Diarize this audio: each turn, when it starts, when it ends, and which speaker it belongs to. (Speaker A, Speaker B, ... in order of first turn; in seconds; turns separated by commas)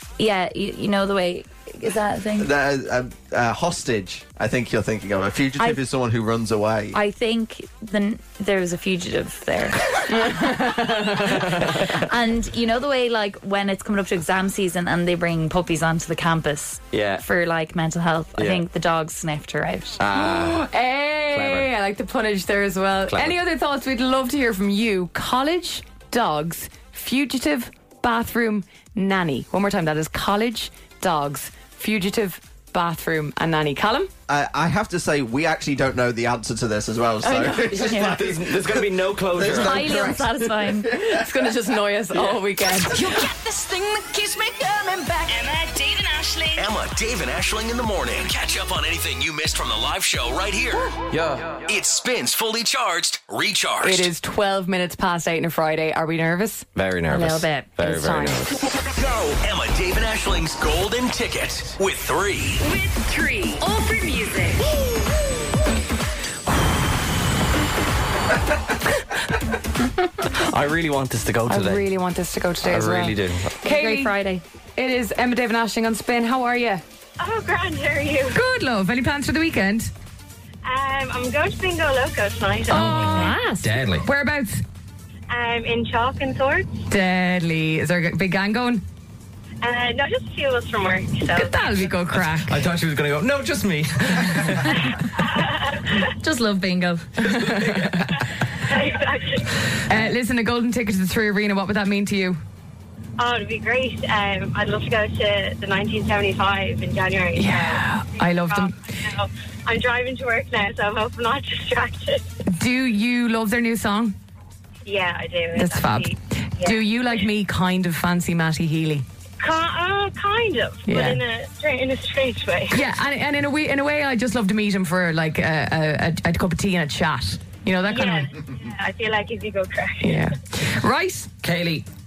Speaker A: 0.2-2.5, Speaker B: 2.4-7.0, Speaker A: 6.9-20.0, Speaker C: 10.1-11.5, Speaker D: 16.9-17.2, Speaker D: 18.4-18.6, Speaker D: 20.0-20.7, Speaker C: 20.1-34.1, Speaker D: 21.3-21.7, Speaker D: 23.1-23.4, Speaker B: 34.3-41.3, Speaker C: 37.2-37.9, Speaker D: 37.7-40.1, Speaker A: 37.9-38.1, Speaker A: 39.5-41.0, Speaker C: 40.9-43.0, Speaker D: 42.1-42.4, Speaker E: 42.8-46.7, Speaker F: 46.6-51.0, Speaker F: 51.6-54.1, Speaker C: 53.8-56.7, Speaker D: 56.8-58.6, Speaker A: 57.1-57.8, Speaker C: 57.8-58.5, Speaker F: 58.9-62.6, Speaker E: 62.6-64.8, Speaker D: 70.3-71.9, Speaker C: 71.5-74.1, Speaker D: 72.6-73.5, Speaker A: 73.6-74.4, Speaker C: 74.8-76.8, Speaker G: 77.2-78.4, Speaker C: 78.3-79.9, Speaker G: 80.6-83.3, Speaker C: 82.7-83.4, Speaker D: 82.7-84.1, Speaker A: 82.9-83.7, Speaker C: 84.0-84.6, Speaker G: 85.3-86.7, Speaker C: 86.9-88.8, Speaker G: 89.6-91.7, Speaker C: 91.3-92.6, Speaker D: 92.2-94.8, Speaker G: 95.2-96.0, Speaker A: 96.2-97.1, Speaker C: 97.2-98.1, Speaker D: 97.2-98.2, Speaker G: 98.6-99.5, Speaker C: 99.9-102.4, Speaker G: 103.2-112.2, Speaker C: 107.4-108.8, Speaker C: 112.5-114.2, Speaker G: 114.8-116.9, Speaker C: 115.5-119.1, Speaker G: 119.4-122.8, Speaker C: 120.9-121.2, Speaker C: 122.7-128.3, Speaker G: 127.9-130.3, Speaker C: 130.0-131.3, Speaker D: 131.4-131.9